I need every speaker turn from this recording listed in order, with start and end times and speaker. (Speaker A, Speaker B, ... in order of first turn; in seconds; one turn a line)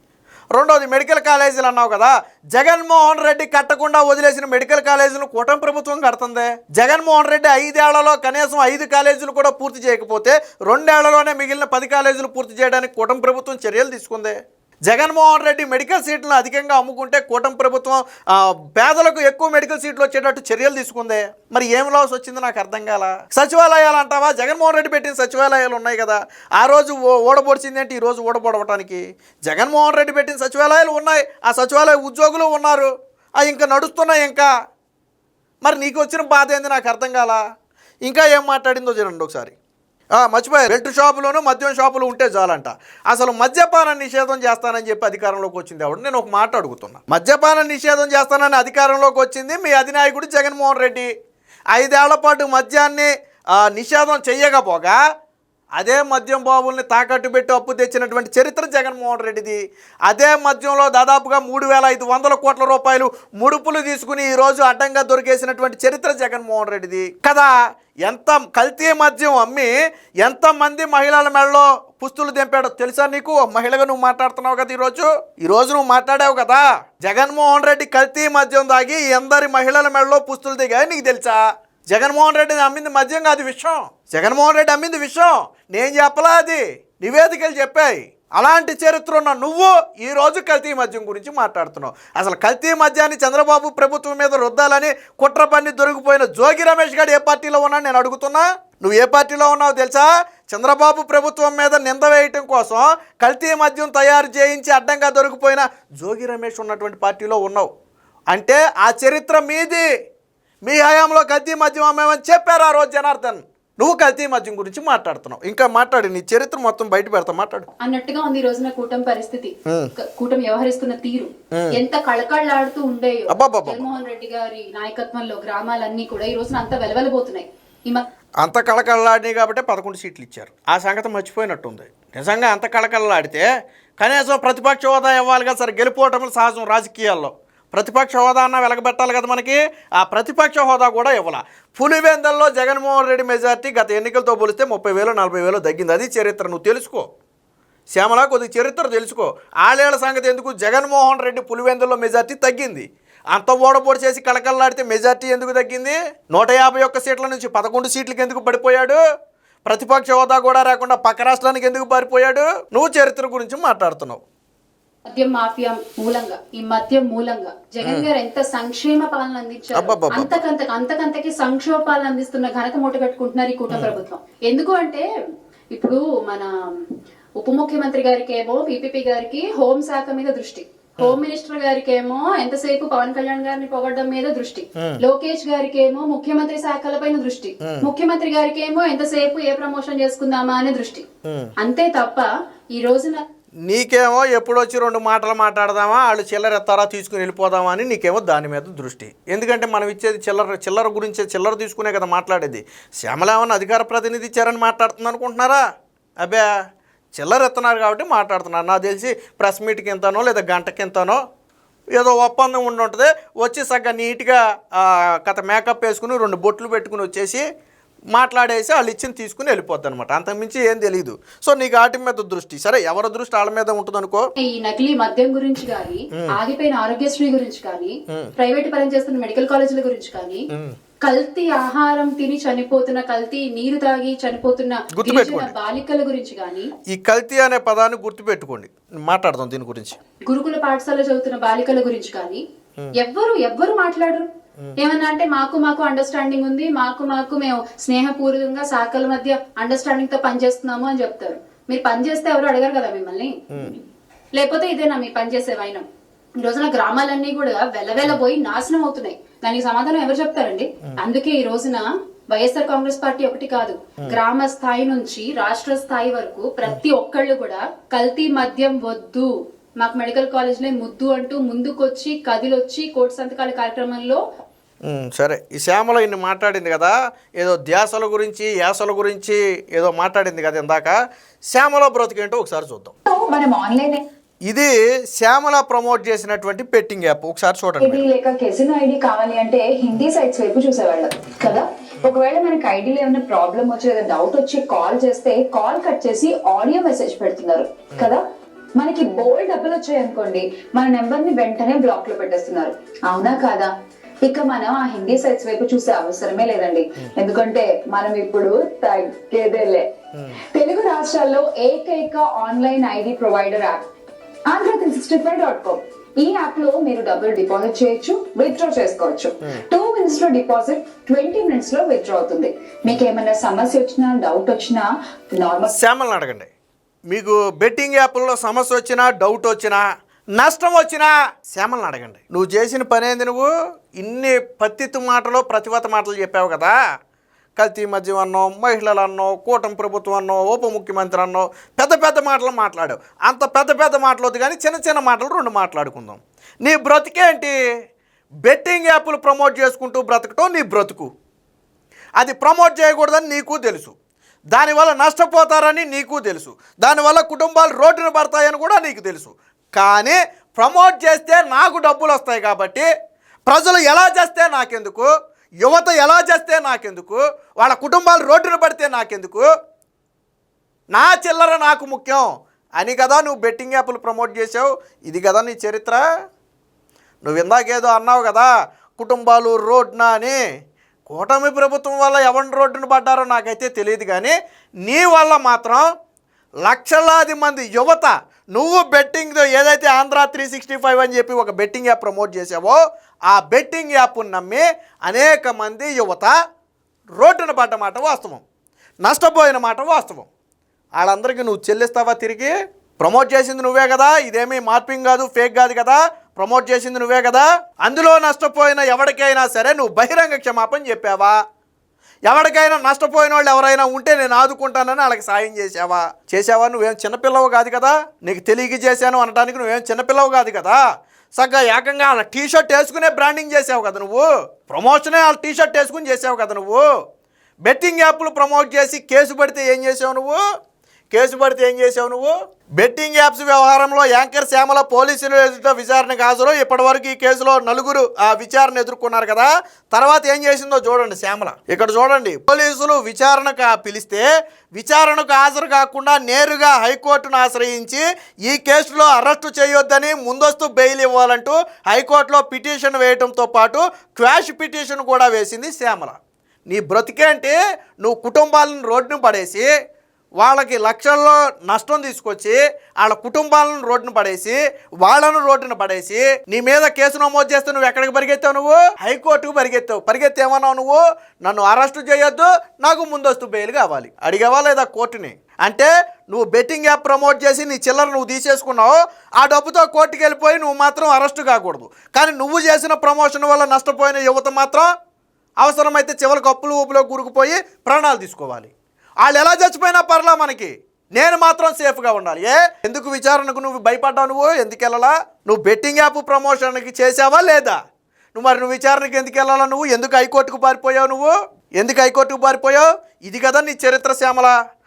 Speaker A: 0.5-34.5
Speaker A: 35.6-37.4
Speaker A: 38.1-39.5
Speaker A: 40.1-51.1
Speaker A: 51.7-55.0
Speaker A: 55.8-67.5
Speaker A: 68.0-69.7
Speaker A: 70.2-107.7
Speaker A: 108.3-109.9
Speaker A: 110.7-117.7
Speaker B: 117.8-128.1
Speaker A: 121.5-121.8
Speaker A: 123.3-123.9
Speaker A: 128.4-133.5
Speaker A: 134.0-147.1
Speaker A: 147.9-159.0
Speaker A: 159.7-164.2
Speaker B: 165.1-175.1
Speaker A: 167.8-168.1
Speaker A: 169.8-170.4
Speaker A: 173.7-174.0
Speaker B: 175.7-176.9
Speaker B: 177.4-191.1
Speaker A: 187.6-187.9
Speaker A: 191.3-191.5
Speaker B: 191.6-193.2
Speaker A: 193.7-205.6
Speaker A: 206.2-206.5
Speaker A: 207.2-211.2
Speaker A: 211.9-217.4
Speaker A: 218.1-224.3
Speaker B: 224.4-230.5
Speaker B: 231.0-236.7
Speaker A: 234.9-235.5
Speaker A: 236.9-240.0
Speaker B: 240.3-242.4
Speaker B: 243.0-253.8
Speaker A: 253.5-253.8
Speaker B: 254.3-255.9
Speaker B: 256.4-269.3
Speaker B: 269.8-274.2
Speaker A: 274.9-281.0
Speaker A: 281.5-282.9
Speaker C: 283.1-284.0
Speaker A: 284.5-288.0
Speaker C: 287.8-298.2
Speaker C: 298.8-303.7
Speaker C: 304.2-309.9
Speaker C: 310.5-313.9
Speaker C: 314.5-325.7
Speaker A: 325.7-326.5
Speaker A: 327.1-329.8
Speaker A: 330.4-336.8
Speaker A: 337.6-347.6
Speaker A: 348.4-351.1
Speaker A: 352.2-353.9
Speaker A: 354.5-362.9
Speaker A: 363.5-365.1
Speaker A: 365.6-369.5
Speaker A: 370.9-376.0
Speaker A: 377.2-380.4
Speaker A: 381.1-385.9
Speaker A: 386.7-396.4
Speaker A: 397.2-398.4
Speaker A: 399.0-400.3
Speaker A: 401.0-411.4
Speaker A: 412.3-420.8
Speaker A: 421.4-426.9
Speaker A: 427.6-430.4
Speaker A: 431.1-456.2
Speaker A: 456.7-459.7
Speaker A: 460.4-484.9
Speaker A: 485.6-488.7
Speaker A: 489.2-497.8
Speaker A: 498.4-504.5